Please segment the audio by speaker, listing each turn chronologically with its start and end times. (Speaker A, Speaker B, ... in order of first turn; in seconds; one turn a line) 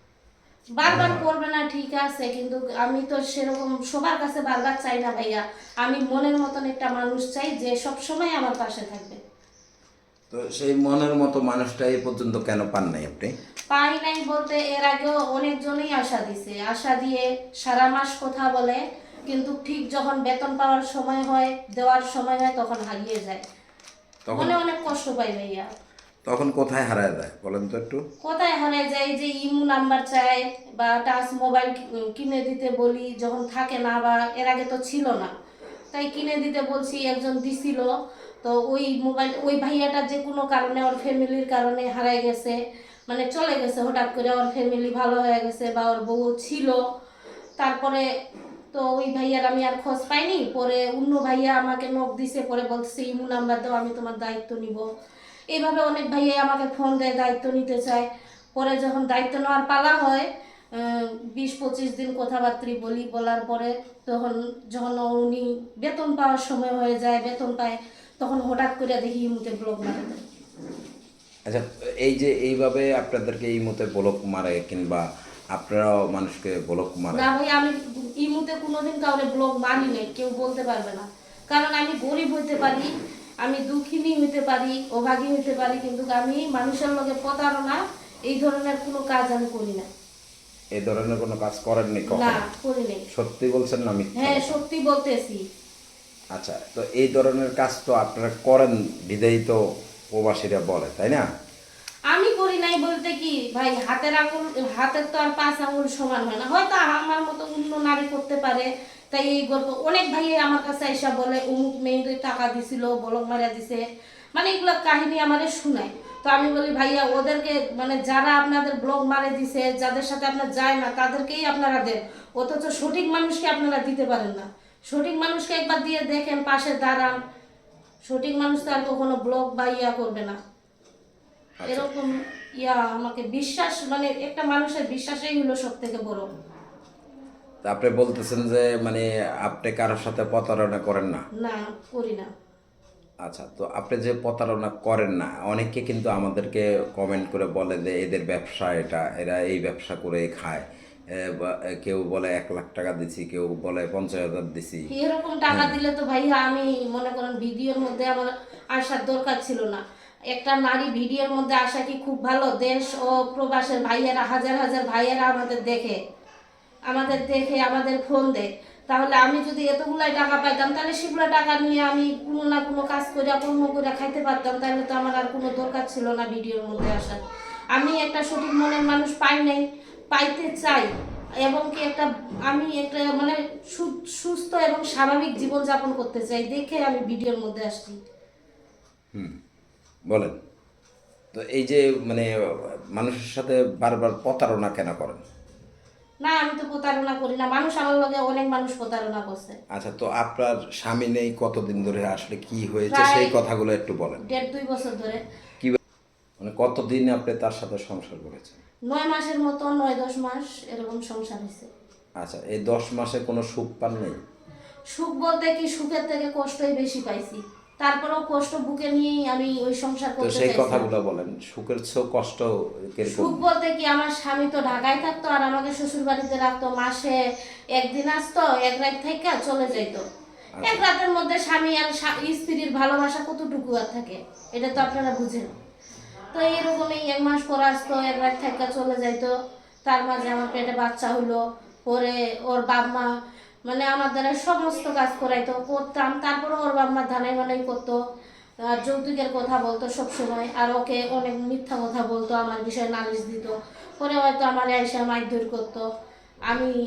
Speaker A: 0.8-9.2
Speaker B: 0.8-1.2
Speaker B: 10.3-13.3
Speaker A: 13.7-23.4
Speaker B: 24.2-24.5
Speaker A: 24.3-25.7
Speaker B: 26.2-28.0
Speaker A: 28.2-35.3
Speaker A: 35.9-37.9
Speaker A: 38.4-42.5
Speaker A: 43.1-46.8
Speaker A: 47.6-48.0
Speaker A: 48.7-54.8
Speaker A: 55.5-70.2
Speaker B: 71.5-77.2
Speaker A: 77.1-82.8
Speaker A: 83.4-89.9
Speaker B: 90.7-92.4
Speaker A: 92.1-93.0
Speaker B: 93.1-94.6
Speaker A: 94.2-95.4
Speaker B: 96.3-99.6
Speaker B: 100.1-101.2
Speaker A: 102.1-113.8
Speaker A: 114.3-127.2
Speaker A: 128.1-130.4
Speaker B: 131.6-131.9
Speaker A: 131.7-136.3
Speaker B: 137.6-141.2
Speaker A: 141.4-142.3
Speaker B: 143.2-150.6
Speaker B: 151.2-154.8
Speaker A: 154.9-159.8
Speaker B: 155.5-155.8
Speaker A: 160.3-166.0
Speaker A: 166.9-177.2
Speaker A: 177.7-180.9
Speaker A: 181.4-188.0
Speaker B: 190.1-190.3
Speaker B: 191.3-192.3
Speaker B: 192.9-195.2
Speaker A: 196.2-199.6
Speaker B: 199.7-204.2
Speaker A: 202.9-203.3
Speaker A: 204.2-205.2
Speaker B: 206.4-208.6
Speaker A: 208.9-211.7
Speaker B: 212.2-214.2
Speaker A: 214.9-220.9
Speaker B: 220.2-223.4
Speaker A: 223.1-227.2
Speaker A: 227.8-230.0
Speaker A: 230.6-235.5
Speaker A: 236.3-239.3
Speaker A: 239.8-243.1
Speaker A: 243.7-248.0
Speaker A: 248.6-255.8